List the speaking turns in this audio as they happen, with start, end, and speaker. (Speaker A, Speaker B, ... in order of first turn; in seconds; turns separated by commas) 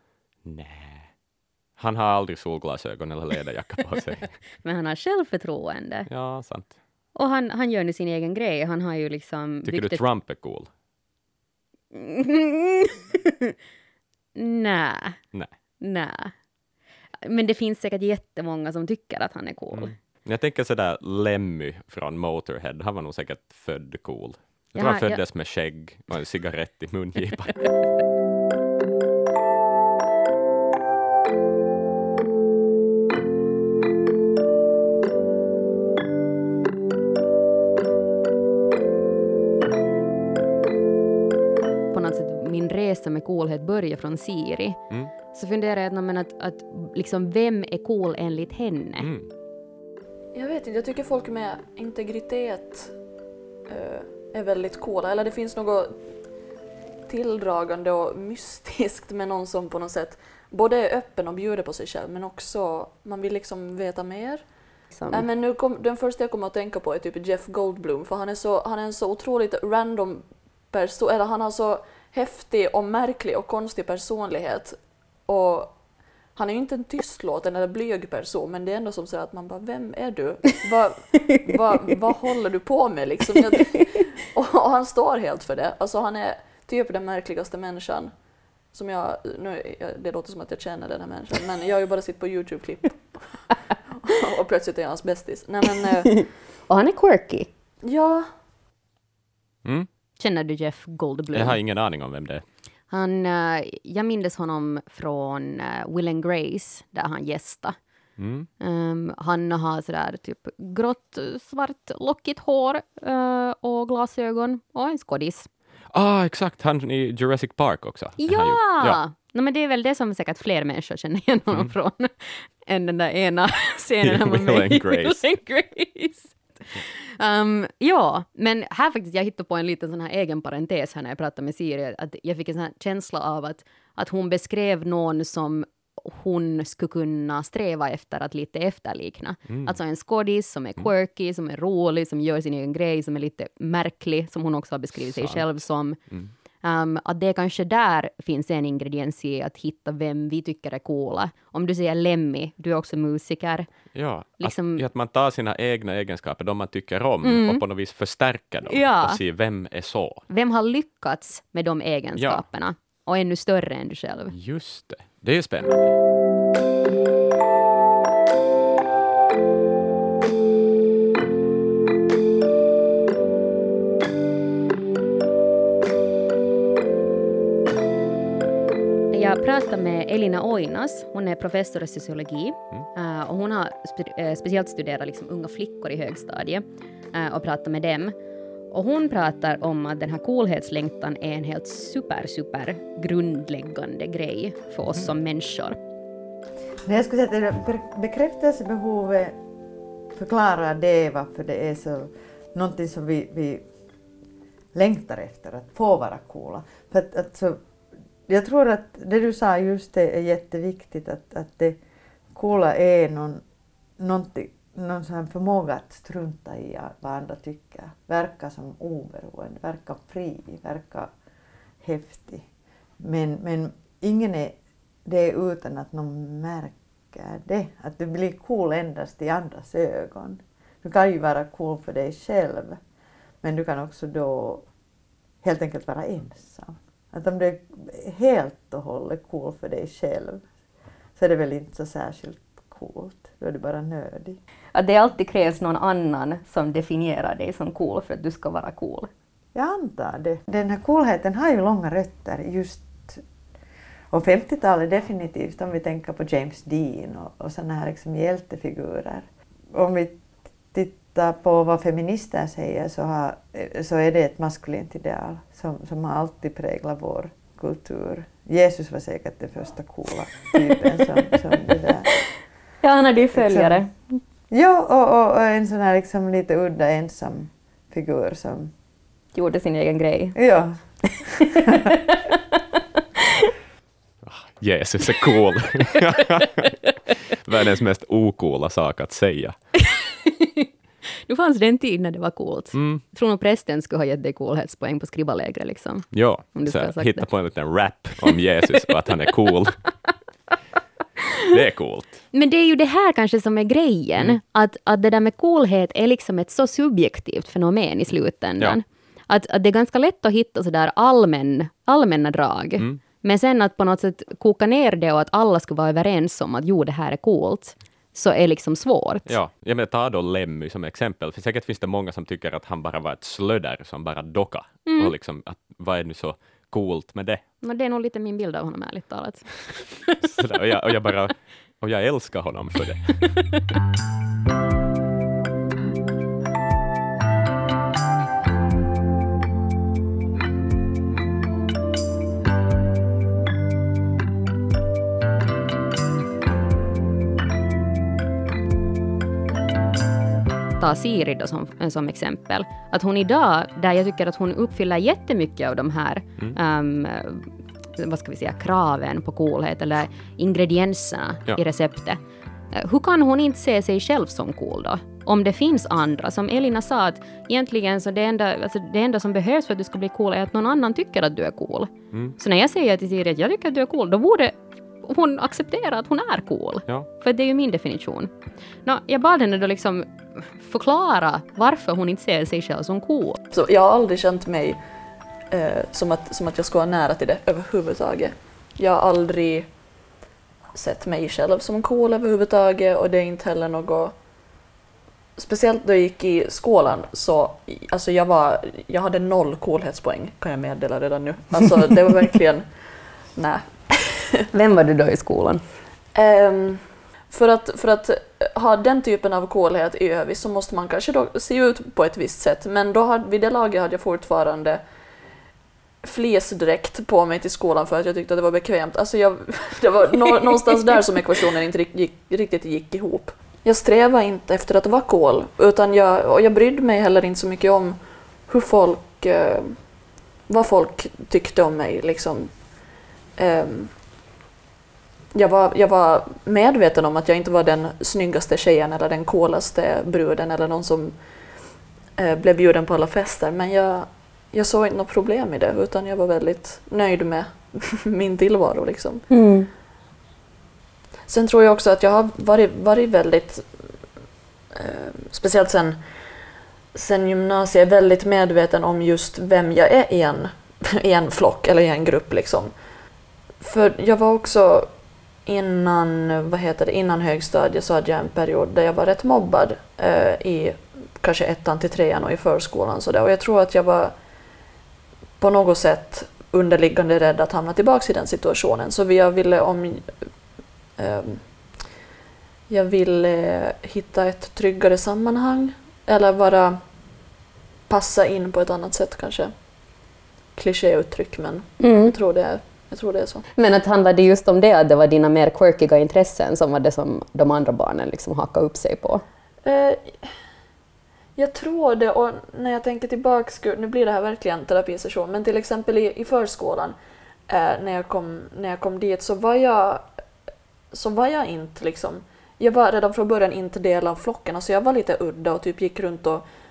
Speaker A: 0.4-1.1, Speaker A: 1.8-4.3, Speaker B: 4.6-6.1, Speaker A: 6.1-6.7, Speaker B: 7.1-10.0, Speaker A: 9.6-10.7, Speaker B: 11.9-13.5, Speaker B: 14.3-15.2, Speaker B: 15.8-16.3, Speaker B: 17.2-19.9, Speaker A: 19.7-27.7, Speaker B: 24.8-25.2, Speaker B: 41.9-44.8, Speaker B: 45.3-49.1, Speaker A: 49.0-49.3, Speaker C: 50.3-52.9, Speaker C: 53.7-55.9, Speaker C: 57.1-64.5, Speaker B: 64.9-65.2, Speaker C: 65.1-75.8, Speaker C: 76.3-88.1, Speaker C: 88.7-96.2, Speaker B: 96.2-97.5, Speaker C: 97.8-98.3, Speaker B: 100.2-101.6, Speaker A: 101.3-102.4, Speaker B: 102.9-107.8, Speaker A: 108.2-108.5, Speaker B: 108.6-115.5, Speaker A: 115.9-119.0, Speaker B: 118.2-146.0, Speaker A: 124.0-125.2, Speaker A: 139.5-139.8, Speaker A: 145.2-146.3, Speaker B: 146.6-153.7, Speaker A: 153.9-160.2, Speaker B: 154.4-154.8, Speaker B: 157.2-157.6, Speaker B: 158.7-159.2, Speaker B: 160.3-164.3, Speaker A: 162.2-162.4, Speaker A: 164.3-165.9, Speaker B: 179.1-188.1, Speaker B: 188.7-195.8, Speaker D: 196.8-199.4, Speaker D: 200.1-203.7, Speaker D: 204.7-207.6, Speaker D: 208.2-211.8, Speaker D: 212.3-213.4, Speaker D: 214.0-221.1, Speaker D: 221.8-222.5, Speaker D: 223.0-232.8, Speaker D: 233.4-234.7, Speaker D: 235.4-240.4, Speaker D: 241.1-244.4, Speaker B: 244.7-249.1, Speaker D: 249.5-253.2, Speaker D: 254.1-272.3, Speaker B: 272.8-274.2, Speaker D: 273.3-273.8, Speaker D: 274.5-278.7, Speaker B: 279.3-280.4, Speaker D: 280.3-281.7, Speaker A: 284.2-286.7, Speaker A: 287.4-289.7, Speaker B: 289.8-290.7, Speaker B: 291.3-297.3, Speaker A: 292.7-293.0, Speaker A: 296.1-299.8, Speaker A: 301.5-302.2, Speaker B: 302.3-319.4, Speaker A: 319.2-327.4, Speaker B: 324.9-325.1, Speaker B: 327.6-330.4, Speaker A: 330.2-333.4, Speaker B: 350.8-362.2, Speaker B: 362.7-378.3, Speaker B: 378.8-383.4, Speaker C: 383.5-384.8, Speaker C: 385.5-389.7, Speaker C: 390.7-394.1, Speaker C: 395.4-404.1, Speaker B: 404.5-405.6, Speaker C: 406.1-414.8, Speaker C: 416.0-429.9, Speaker C: 430.5-432.7, Speaker C: 433.4-433.9, Speaker C: 435.3-441.2, Speaker C: 442.2-449.2, Speaker B: 449.3-449.7, Speaker C: 451.3-453.7, Speaker C: 454.7-456.0, Speaker C: 456.9-462.7, Speaker C: 463.6-464.9, Speaker C: 465.4-474.1, Speaker C: 475.4-480.1, Speaker C: 481.0-481.8, Speaker C: 482.7-486.8, Speaker C: 487.9-489.5, Speaker C: 490.6-493.4, Speaker B: 491.8-492.1, Speaker B: 493.6-499.2, Speaker C: 499.6-500.2, Speaker C: 501.4-506.9, Speaker C: 507.5-510.1, Speaker C: 510.9-516.4